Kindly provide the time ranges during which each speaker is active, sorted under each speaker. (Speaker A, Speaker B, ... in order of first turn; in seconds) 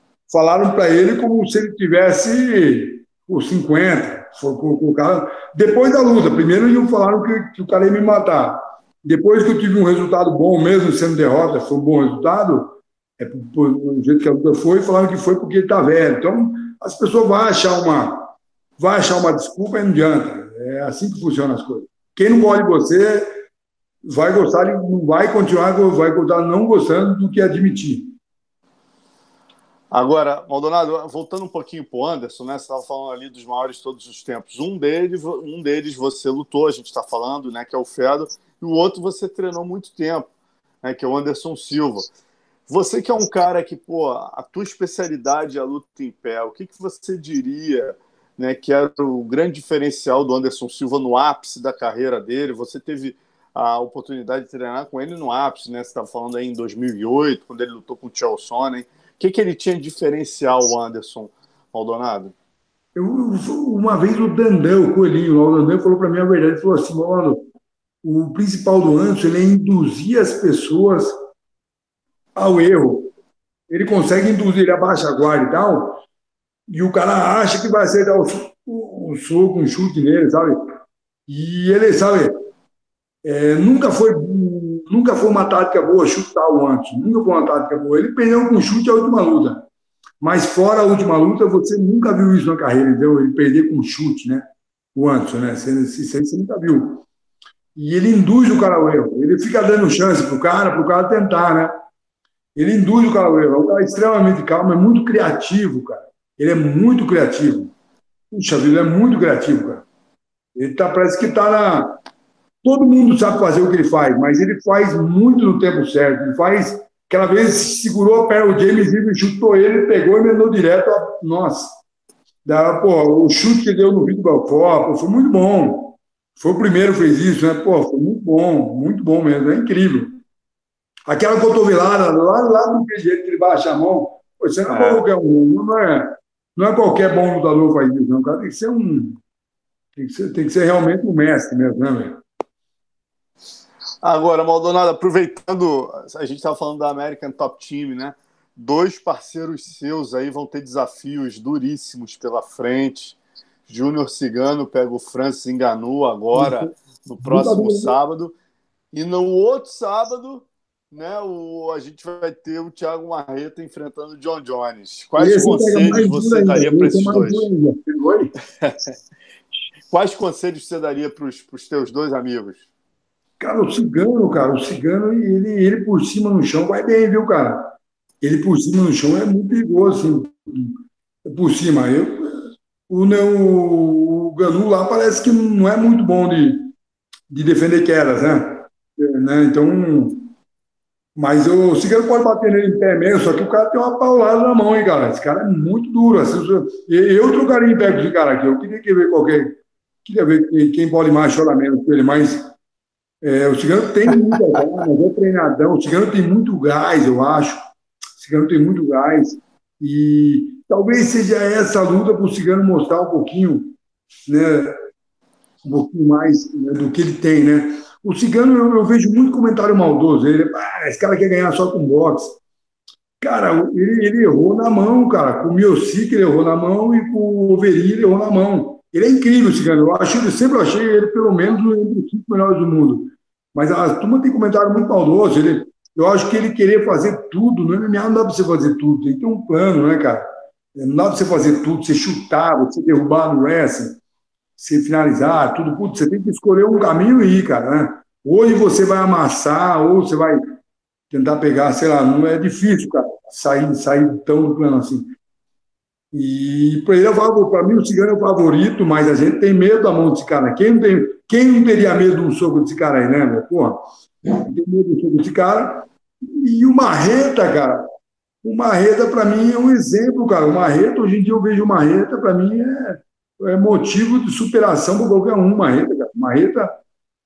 Speaker A: 0.3-23.3, 24.0-28.1, 62.9-67.4, 68.0-71.1, 72.3-73.1, 73.7-76.0, 76.7-80.5, 81.3-82.3, 83.2-89.7, 90.2-97.0, 97.8-101.7, 102.5-107.7, 108.3-109.8, 110.5-112.0, 112.6-121.8, 122.4-130.1, 131.1-139.2, 139.9-142.2, 156.3-156.7, 157.2-157.9, 165.2-168.3, 173.4-186.7, 187.3-190.3, 191.2-202.5, 203.2-207.6, 208.2-213.7, 214.3-214.8, 215.6-222.4, 223.2-240.2, 240.7-244.0, 244.6-250.4, 251.1-255.1, 256.1-267.8, 268.4-276.8
Speaker B: 29.9-40.3, 40.8-42.1, 42.7-62.3, 134.7-135.0, 144.0-158.3, 158.9-167.5, 168.6-168.9, 169.9-172.6